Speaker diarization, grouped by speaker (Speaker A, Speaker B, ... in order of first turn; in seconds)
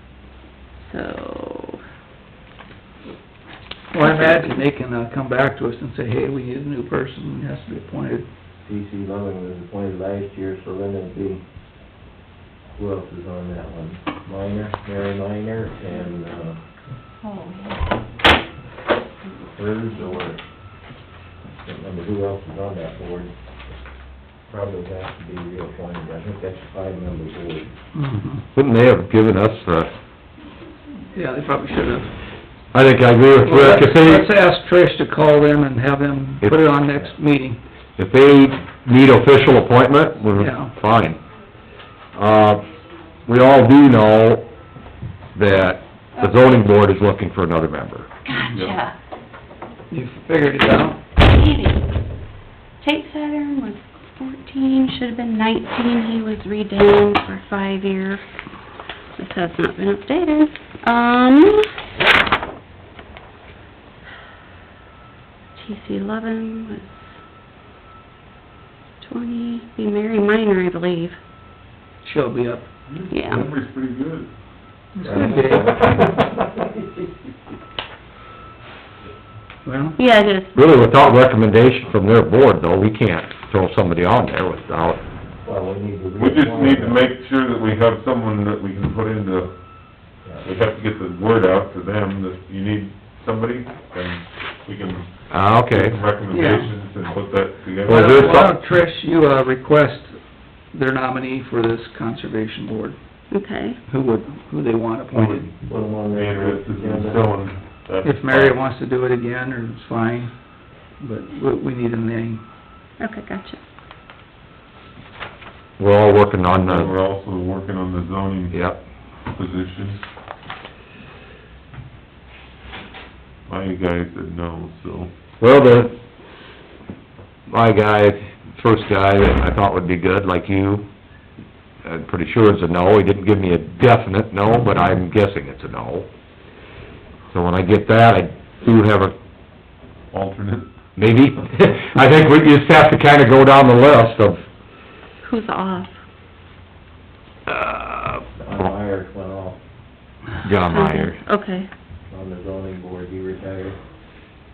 Speaker A: 0.8-1.8, 4.0-4.6, 17.2-17.9, 48.2-48.9, 51.2-51.9, 52.8-58.2, 59.2-61.8, 65.6-67.0, 69.0-71.2, 73.1-73.5, 80.0-80.5, 103.3-103.8, 113.0-113.6, 145.2-145.9, 150.7-151.7
Speaker B: 3.9-8.3, 27.9-28.4, 31.1-32.1, 33.4-37.6, 40.3-40.7, 49.9-51.0, 72.0-72.7, 75.0-76.0, 79.7-80.0, 96.3-96.7, 97.9-100.2, 100.7-103.0, 103.9-105.5, 108.0-110.3, 111.0-112.4
Speaker C: 8.6-11.4, 12.7-16.6, 19.4-20.4, 21.6-23.3, 24.5-27.7, 75.0-77.1, 85.4-87.1, 90.2-90.5, 105.7-107.3, 148.4-149.6, 152.1-153.8
Speaker D: 28.5-29.9, 32.7-34.3, 38.0-41.2, 42.1-42.7, 43.2-44.5, 45.3-48.1, 80.5-85.0, 95.3-96.0, 97.8-98.5, 115.8-116.9, 118.5-118.8, 125.4-125.9, 127.5-130.9, 131.8-136.1, 137.3-139.1, 140.9-144.4, 147.5-148.7, 150.4-151.2
Speaker E: 48.5-48.8, 72.9-74.3, 86.2-89.5, 90.4-98.5, 105.1-108.6, 116.4-118.7, 119.3-120.0, 123.5-125.1, 140.1-140.7